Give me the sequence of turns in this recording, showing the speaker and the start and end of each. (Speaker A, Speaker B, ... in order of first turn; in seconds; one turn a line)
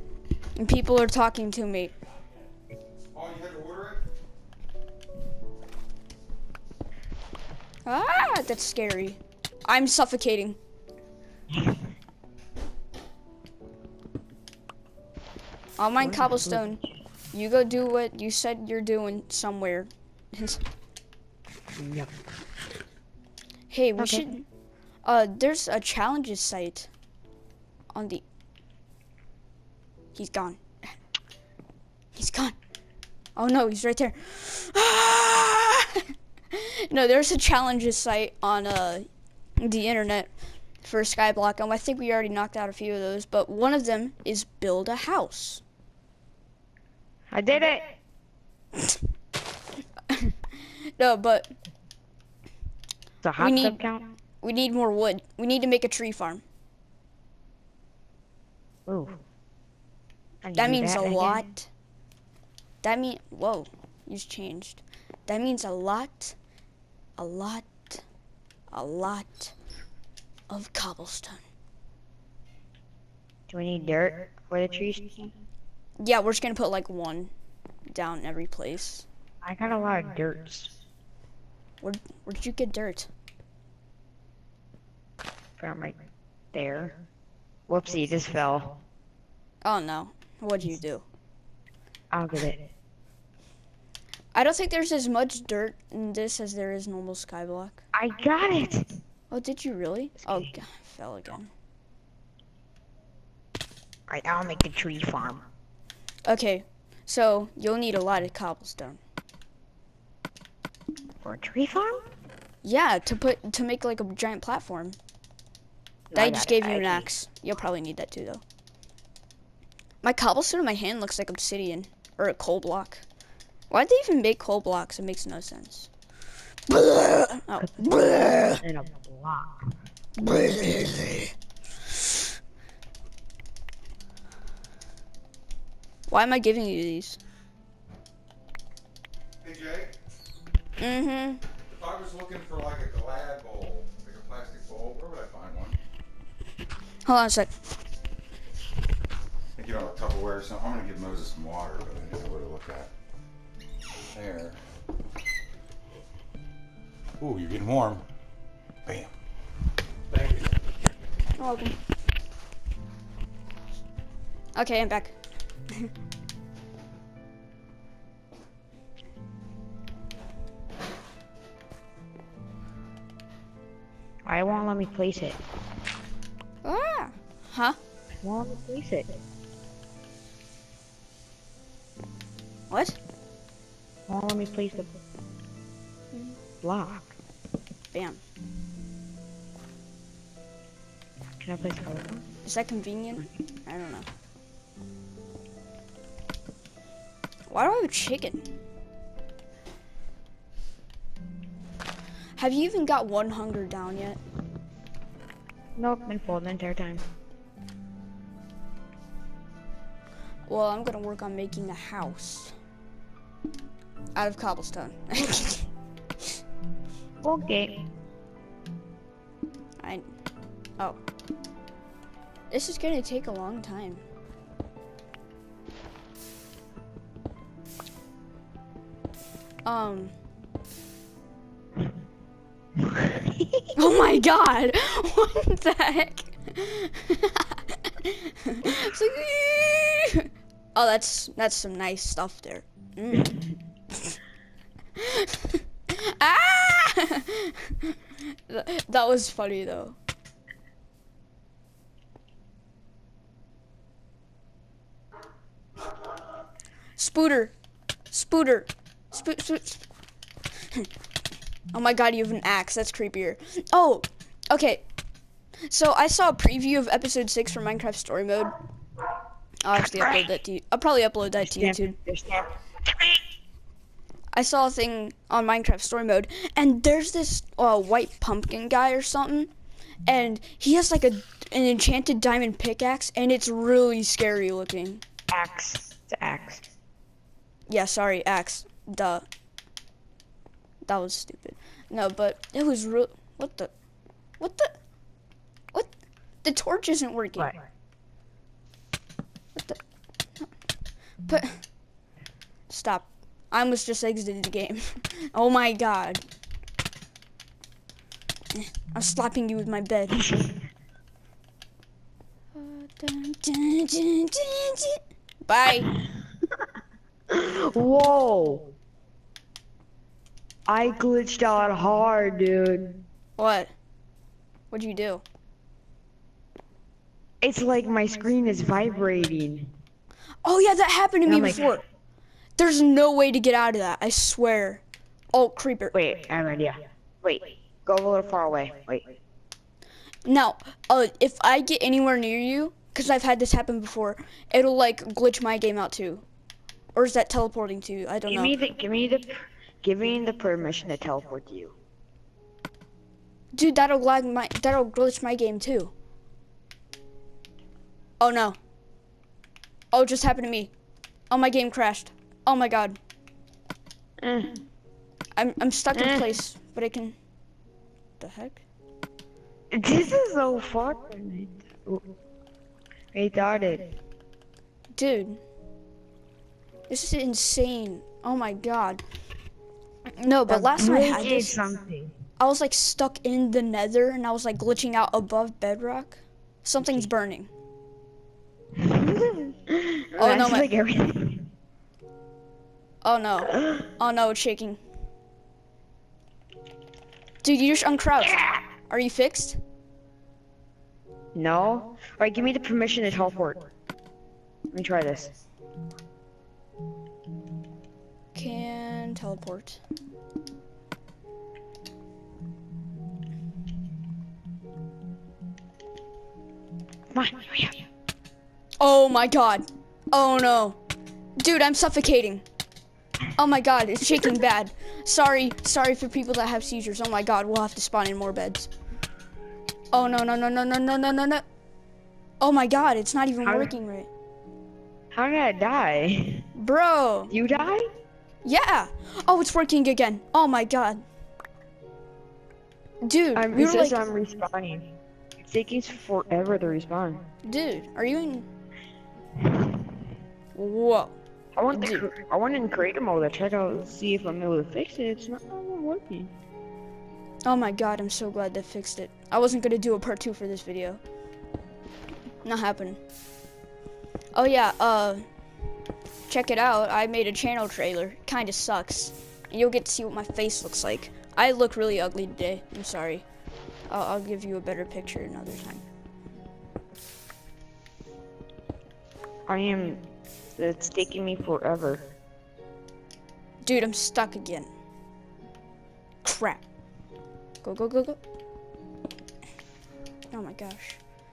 Speaker A: 0.6-1.9
Speaker B: 3.1-4.0
Speaker A: 7.9-10.6
Speaker A: 15.8-16.8
Speaker C: 16.0-16.6
Speaker A: 17.3-20.6
Speaker C: 21.7-22.1
Speaker A: 23.7-24.5
Speaker C: 24.0-24.2
Speaker A: 25.0-26.9
Speaker A: 27.9-28.2
Speaker A: 30.1-30.6
Speaker A: 32.1-32.6
Speaker A: 33.4-39.1
Speaker A: 39.6-40.3
Speaker A: 40.8-45.6
Speaker C: 47.3-47.9
Speaker A: 50.1-51.5
Speaker C: 53.2-54.1
Speaker A: 53.4-53.8
Speaker A: 54.4-56.4
Speaker C: 58.9-59.2
Speaker C: 60.4-61.5
Speaker A: 60.6-61.7
Speaker A: 62.8-66.4
Speaker A: 67.2-68.0
Speaker A: 68.7-69.5
Speaker A: 70.5-71.4
Speaker C: 73.5-75.3
Speaker A: 76.0-77.3
Speaker A: 77.9-79.1
Speaker C: 79.4-80.8
Speaker A: 81.8-83.1
Speaker C: 85.6-86.0
Speaker C: 86.5-87.0
Speaker C: 87.7-88.8
Speaker A: 89.6-91.0
Speaker C: 92.1-92.7
Speaker A: 94.3-97.8
Speaker C: 97.9-98.9
Speaker A: 99.3-101.5
Speaker C: 104.1-105.5
Speaker A: 106.3-109.0
Speaker C: 111.2-112.1
Speaker A: 112.6-115.0
Speaker C: 116.1-117.1
Speaker A: 116.1-118.4
Speaker A: 120.0-123.0
Speaker A: 123.7-125.9
Speaker A: 126.7-128.6
Speaker C: 128.6-129.6
Speaker A: 130.2-131.3
Speaker A: 136.1-137.2
Speaker B: 139.4-139.9
Speaker A: 140.8-141.4
Speaker B: 141.7-145.8
Speaker A: 147.1-147.5
Speaker B: 149.6-152.9
Speaker B: 154.1-154.6
Speaker B: 157.2-158.0
Speaker B: 158.9-159.1
Speaker B: 160.1-160.5
Speaker A: 161.4-161.8
Speaker A: 164.6-165.2
Speaker C: 174.3-175.4
Speaker A: 176.6-177.8
Speaker C: 178.2-179.1
Speaker A: 182.7-183.0
Speaker C: 184.1-184.9
Speaker C: 186.6-187.1
Speaker A: 187.9-188.2
Speaker C: 191.4-192.3
Speaker A: 192.4-194.1
Speaker A: 197.5-198.5
Speaker A: 202.4-204.2
Speaker C: 205.8-207.0
Speaker A: 210.5-212.5
Speaker A: 214.2-215.7
Speaker C: 217.2-217.8
Speaker A: 222.5-224.0
Speaker A: 229.6-230.1
Speaker C: 233.0-233.7
Speaker A: 233.8-244.2
Speaker A: 245.0-250.0
Speaker A: 257.0-257.5
Speaker A: 258.1-259.8
Speaker A: 261.7-264.8
Speaker A: 265.7-268.6
Speaker A: 269.6-272.0
Speaker C: 269.8-270.2
Speaker C: 271.4-273.2
Speaker A: 274.3-279.5
Speaker A: 280.1-285.0
Speaker C: 285.3-286.7
Speaker A: 287.7-289.2
Speaker A: 290.9-293.7
Speaker A: 294.4-294.7
Speaker A: 296.4-297.6
Speaker A: 301.3-301.6
Speaker A: 302.7-306.2
Speaker A: 308.5-310.4
Speaker A: 312.5-315.9
Speaker C: 317.3-318.7
Speaker C: 320.7-323.0
Speaker A: 323.4-323.7
Speaker A: 324.7-325.2
Speaker C: 327.4-329.7
Speaker A: 330.4-331.8
Speaker C: 331.3-331.8
Speaker A: 332.6-335.9
Speaker C: 335.9-339.1
Speaker A: 340.2-346.2
Speaker A: 346.9-348.6
Speaker C: 348.3-351.7
Speaker A: 353.5-355.9
Speaker A: 358.2-358.6
Speaker A: 359.9-360.7
Speaker A: 361.3-363.0
Speaker C: 364.2-364.6
Speaker A: 365.4-367.2
Speaker C: 365.9-366.3
Speaker A: 368.2-368.6
Speaker C: 369.7-372.1
Speaker C: 373.1-373.9
Speaker A: 374.9-375.4
Speaker A: 376.9-379.0
Speaker A: 380.1-381.6
Speaker C: 380.5-382.1
Speaker A: 382.4-387.5
Speaker C: 388.8-391.4
Speaker A: 390.2-390.7
Speaker A: 393.0-394.8
Speaker A: 397.4-399.6
Speaker C: 401.3-403.6
Speaker C: 404.7-405.4
Speaker A: 408.3-409.8
Speaker C: 417.1-417.9
Speaker A: 418.8-420.8
Speaker A: 421.4-422.4
Speaker A: 423.3-428.7
Speaker A: 429.9-431.4
Speaker A: 432.4-434.1
Speaker C: 433.4-433.7
Speaker C: 435.1-436.5
Speaker A: 436.6-437.3
Speaker C: 437.3-437.9
Speaker A: 438.4-441.0
Speaker A: 443.0-444.1
Speaker C: 443.4-444.9
Speaker C: 445.4-447.2
Speaker A: 447.4-448.5
Speaker A: 450.6-451.2
Speaker C: 451.6-456.3
Speaker A: 451.7-452.1
Speaker A: 457.4-461.0
Speaker A: 462.4-463.0
Speaker A: 464.3-465.2
Speaker A: 466.3-473.2
Speaker A: 473.9-475.8
Speaker C: 479.5-482.1
Speaker A: 483.6-484.7
Speaker A: 486.2-486.6
Speaker A: 487.6-488.2
Speaker A: 490.3-491.0